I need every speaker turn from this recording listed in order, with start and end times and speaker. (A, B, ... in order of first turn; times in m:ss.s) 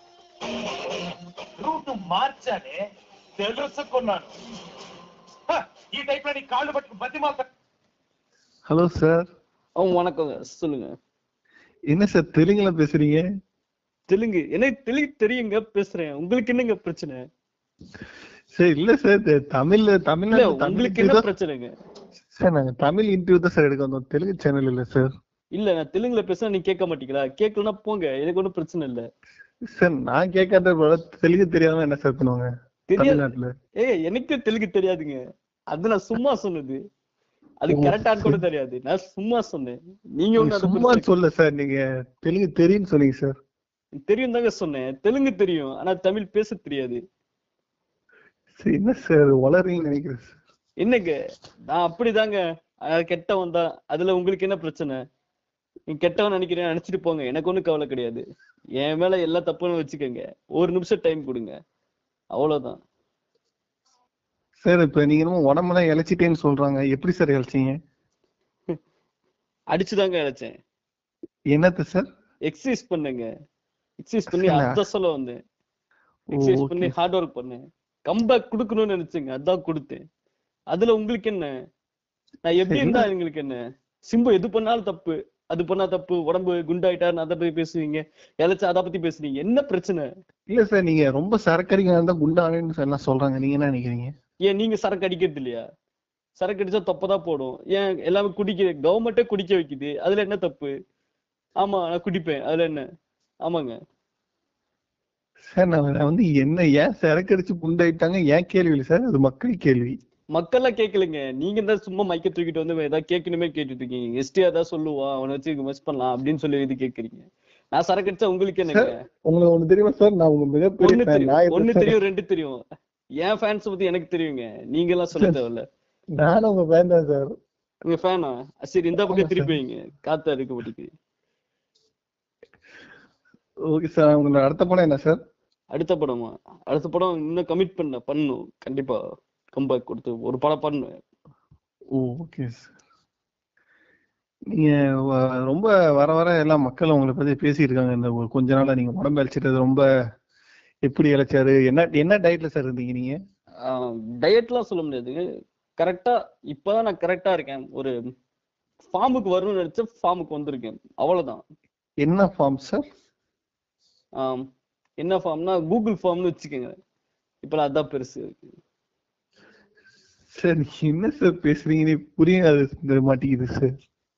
0:00.5-0:02.8 A
0:03.4-0:04.3 A
0:05.5-0:07.5 A
0:08.7-0:09.3 B
0:09.8-0:10.9 C
0:11.9-0:13.2 B
0:14.1-0:17.2 C
0:18.6-0:21.3 B
0:20.3-0:21.7 C
0:22.4-0:25.1 B
0:25.6-0:29.0 C
0:29.7-0:33.5 B
0:32.9-0:33.3 C
0:33.8-0:35.2 C
0:35.7-0:36.8 C
0:37.6-0:41.1 C
0:37.7-0:38.4 B
0:40.4-0:43.4 B
0:44.0-0:47.0 C
0:48.6-0:50.4 B
0:50.8-0:51.2 C
0:51.7-0:52.4 C
0:52.9-0:55.0 C
0:55.9-0:58.2 C
0:58.8-1:01.5 C
1:02.4-1:02.8 C
1:04.6-1:07.7 B
1:09.7-1:10.5 C
1:11.5-1:12.1 B
1:12.5-1:13.3 C
1:14.0-1:15.4 C
1:14.3-1:14.8 B
1:16.4-1:20.0 C
1:16.4-1:17.0 B
1:20.7-1:21.5 C
1:22.5-1:23.6 C
1:22.7-1:23.1 B
1:24.1-1:30.0 C
1:30.5-1:34.1 B
1:34.5-1:35.6 C
1:36.4-1:40.7 C
1:41.6-1:42.8 C
1:43.4-1:43.8 C
1:45.5-1:50.0 B
1:50.4-1:58.9 C
1:58.7-2:02.0 B
2:00.8-2:02.6 C
2:03.2-2:05.6 C
2:06.2-2:07.3 B
2:07.9-2:10.9 C
2:09.0-2:09.6 B
2:13.7-2:15.2 B
2:15.7-2:19.0 C
2:19.6-2:21.0 C
2:22.0-2:22.7 B
2:24.5-2:29.8 B
2:30.9-2:33.2 B
2:33.7-2:35.2 C
2:35.8-2:38.0 C
2:38.9-2:41.4 C
2:42.0-2:42.8 B
2:44.2-2:44.4 C
2:45.0-2:46.7 C
2:47.4-2:48.5 C
2:50.4-2:53.7 B